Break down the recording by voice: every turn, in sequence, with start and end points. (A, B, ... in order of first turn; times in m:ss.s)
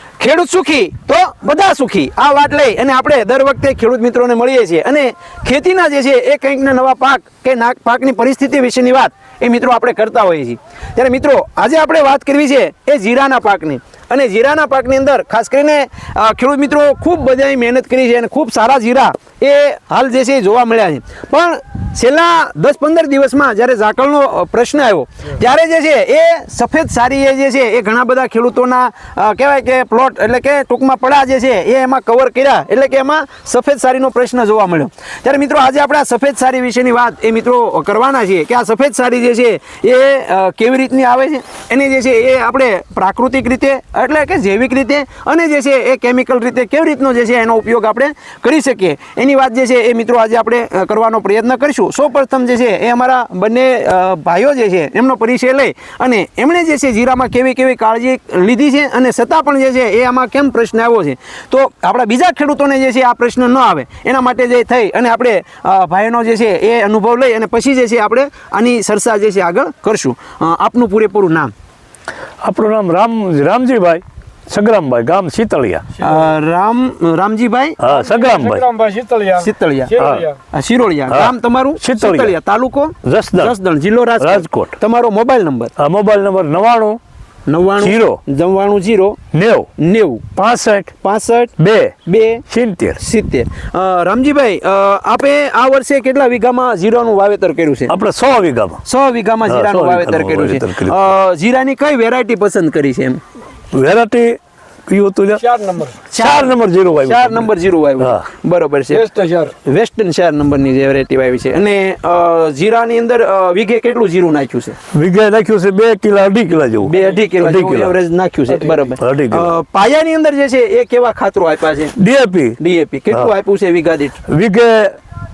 0:00.2-1:11.5 A
1:12.4-1:15.8 B
1:16.0-1:16.3 C
1:16.0-1:17.8 A
1:17.8-1:18.6 B
1:17.8-1:20.4 C
1:19.4-1:19.9 A
1:20.0-1:20.3 B
1:20.5-1:25.7 A
1:21.1-1:22.3 B
1:23.0-1:23.5 B
1:24.2-1:24.7 B
1:25.8-1:27.0 B
1:27.5-1:29.2 A
1:27.8-1:28.2 B
1:29.3-1:29.7 B
1:29.8-1:30.3 A
1:30.3-1:30.9 B
1:31.0-1:32.4 A
1:31.6-1:32.0 B
1:32.5-1:33.0 B
1:33.0-1:37.9 A
1:37.9-1:38.8 B
1:38.8-1:43.2 A
1:39.4-1:41.1 B
1:43.7-1:45.4 B
1:45.4-1:46.0 C
1:46.1-1:49.0 A
1:46.2-1:47.5 B
1:48.0-1:48.2 B
1:48.9-1:49.5 C
1:49.6-1:54.8 A
1:54.9-1:58.0 B
1:56.8-2:02.0 A
1:58.5-1:58.8 C
1:59.0-1:59.5 B
2:02.0-2:02.6 B
2:02.6-2:04.2 A
2:04.3-2:05.0 B